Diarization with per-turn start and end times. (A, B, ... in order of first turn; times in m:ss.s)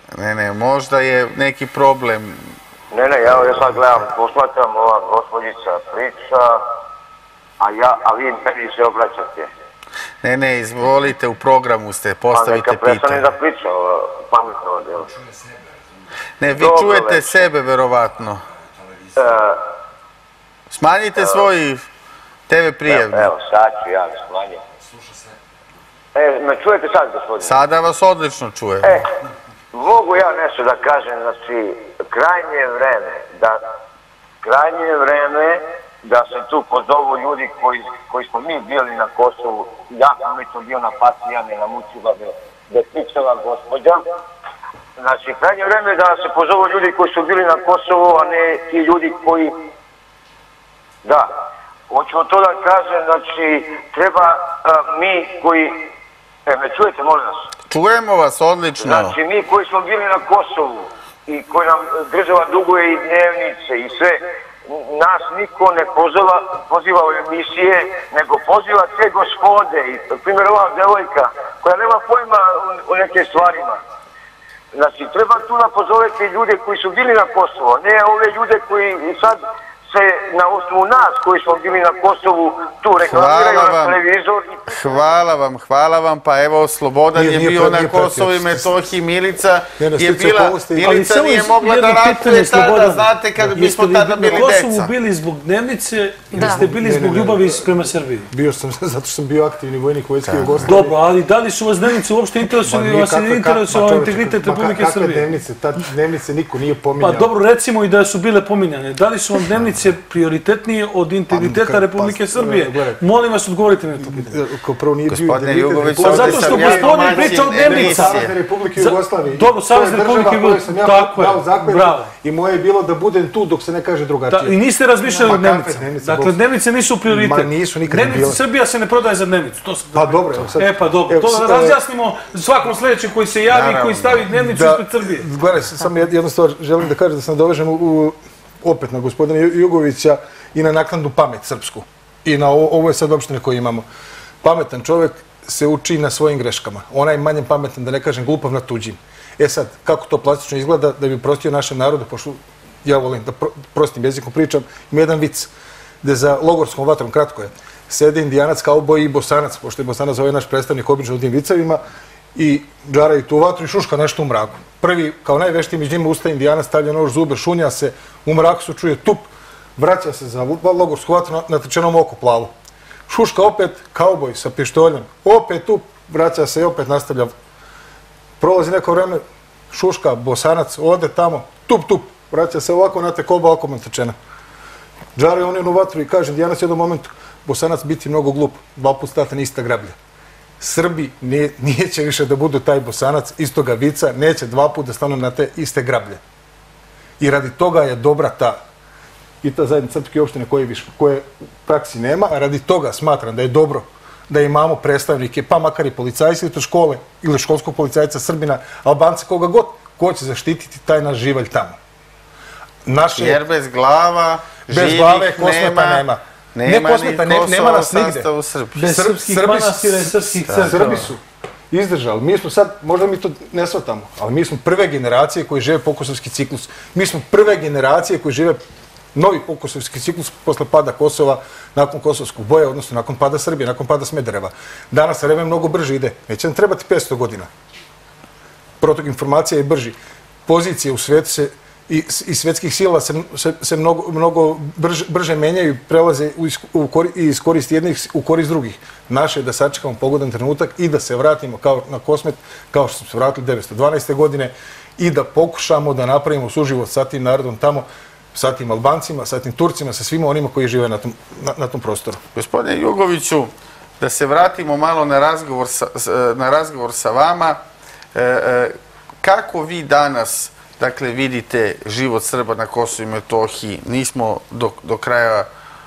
0:00.1-0:02.4 A
0:02.9-0:06.6 B
0:07.6-0:09.5 B
0:10.2-0:13.3 A
0:12.3-0:15.1 B
0:16.4-0:18.4 A
0:16.6-0:17.5 B
0:19.2-0:19.6 B
0:20.7-0:21.8 A
0:21.2-0:21.5 B
0:22.5-0:23.3 A
0:22.9-0:24.6 B
0:26.2-0:27.5 B
0:27.4-0:29.0 A
0:28.8-0:29.1 B
0:29.7-0:33.6 B
0:34.4-0:44.0 B
0:45.0-0:49.6 B
0:51.0-0:51.3 B
0:51.9-0:55.8 B
0:56.5-0:57.4 B
0:57.7-0:59.2 A
0:58.8-1:04.2 B
1:04.7-1:13.8 B
1:14.7-1:24.9 B
1:23.1-1:24.0 A
1:24.7-1:34.9 A
1:27.2-1:28.8 C
1:29.8-1:31.0 C
1:30.8-1:38.3 D
1:36.3-1:37.7 C
1:38.3-1:41.0 C
1:40.3-1:40.7 A
1:40.7-1:45.3 D
1:42.6-1:47.3 C
1:47.0-1:54.3 D
1:51.3-1:53.0 C
1:54.0-2:06.4 C
1:55.1-1:58.3 A
1:56.0-2:02.1 D
2:04.3-2:15.3 D
2:07.1-2:08.4 C
2:09.9-2:11.8 C
2:13.5-2:14.3 A
2:14.3-2:23.8 C
2:24.4-2:35.5 C
2:36.0-2:41.8 C
2:42.4-2:52.5 C
2:53.1-2:57.3 C
2:58.4-3:04.2 C
3:05.2-3:10.0 C
3:10.6-3:16.2 C
3:17.2-3:18.6 C
3:19.4-3:31.8 C
3:32.8-3:33.4 C
3:33.2-3:38.8 A
3:34.7-3:38.3 C
3:38.8-3:41.1 D
3:38.8-3:48.6 C
3:49.1-3:57.5 C
3:58.8-4:22.2 C
4:22.4-4:27.6 A
4:28.2-4:35.5 A